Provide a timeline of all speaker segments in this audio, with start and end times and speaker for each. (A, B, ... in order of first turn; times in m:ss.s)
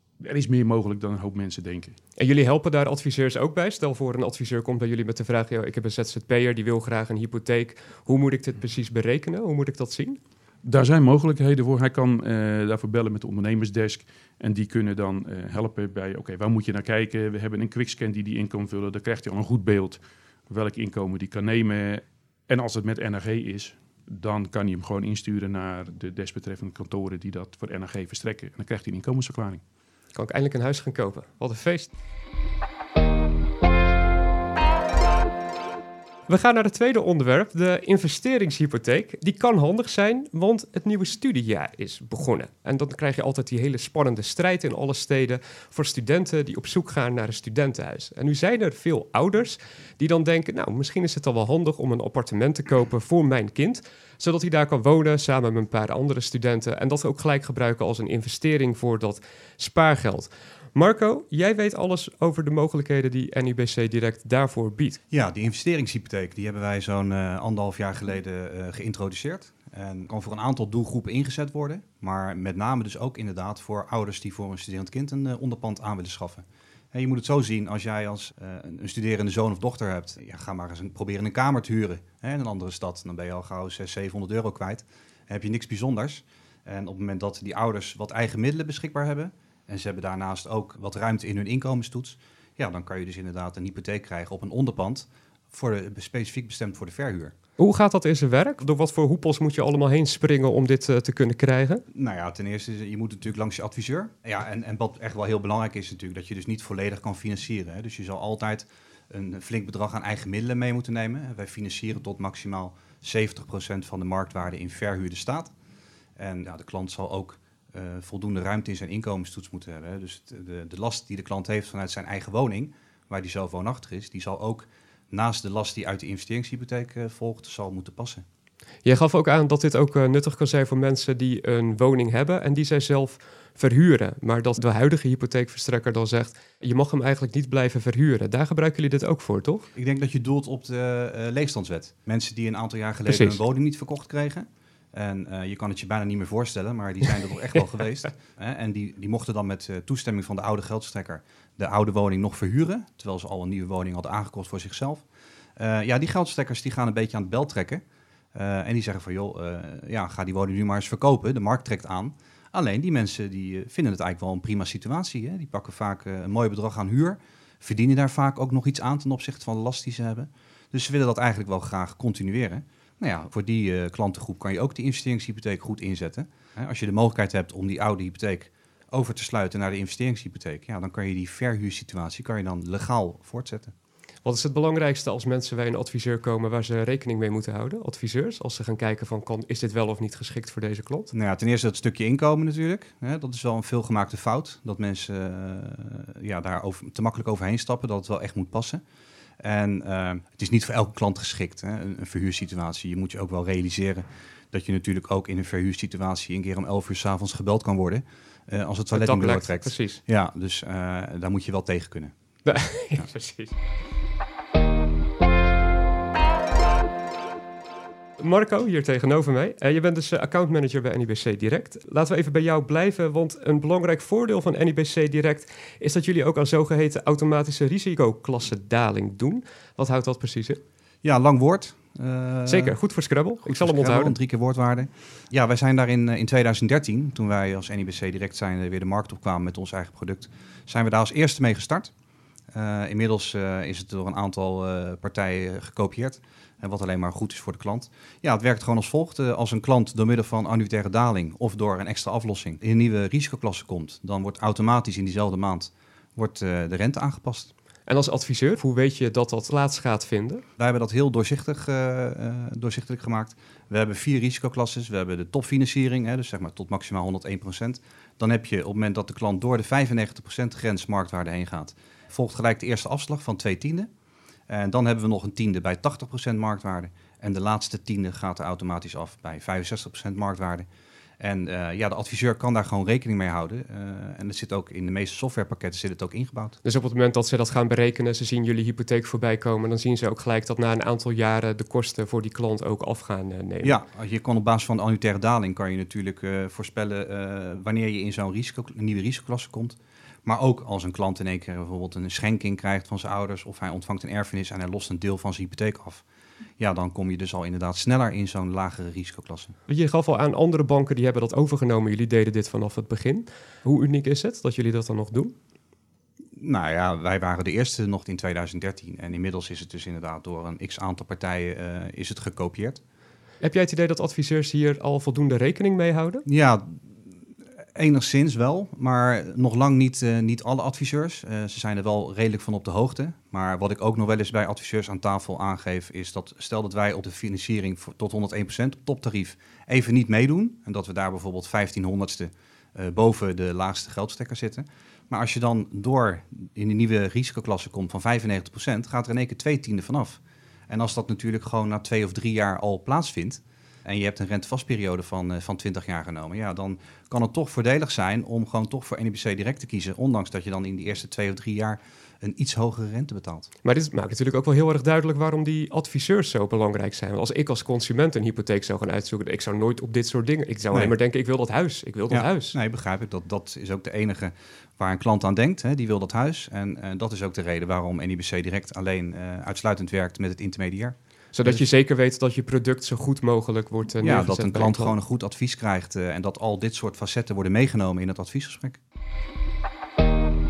0:00.2-0:02.0 A
0:02.2-0:10.2 B
0:10.6-0:29.6 A
0:30.1-0:31.9 B
0:36.3-1:05.0 B
1:05.1-1:37.3 C
1:37.6-1:41.8 B
1:41.9-1:55.5 C
1:56.2-2:08.2 C
2:08.8-2:19.7 B
2:19.7-2:35.0 C
2:23.1-2:23.4 B
2:35.6-2:37.8 C
2:38.3-3:03.7 C
3:04.2-3:11.1 B
3:11.1-3:18.8 C
3:19.4-3:32.1 C
3:28.9-3:30.0 B
3:32.4-3:33.6 B
3:38.2-3:50.6 B
3:51.0-3:52.8 C
3:52.5-3:54.1 B
3:53.4-4:01.9 C
4:02.5-4:17.5 C
4:17.9-4:20.4 B
4:20.6-4:33.9 C
4:34.5-4:40.6 C
4:41.2-4:46.6 C
4:46.6-4:53.8 B
4:53.6-5:06.0 C
5:06.6-5:09.5 C
5:09.7-5:15.3 B
5:16.4-5:22.8 C
5:23.4-5:26.2 B
5:26.3-5:26.8 C
5:27.8-6:03.5 C
6:03.6-6:12.6 B
6:12.1-6:21.6 C
6:21.3-6:24.9 B
6:24.0-6:28.8 C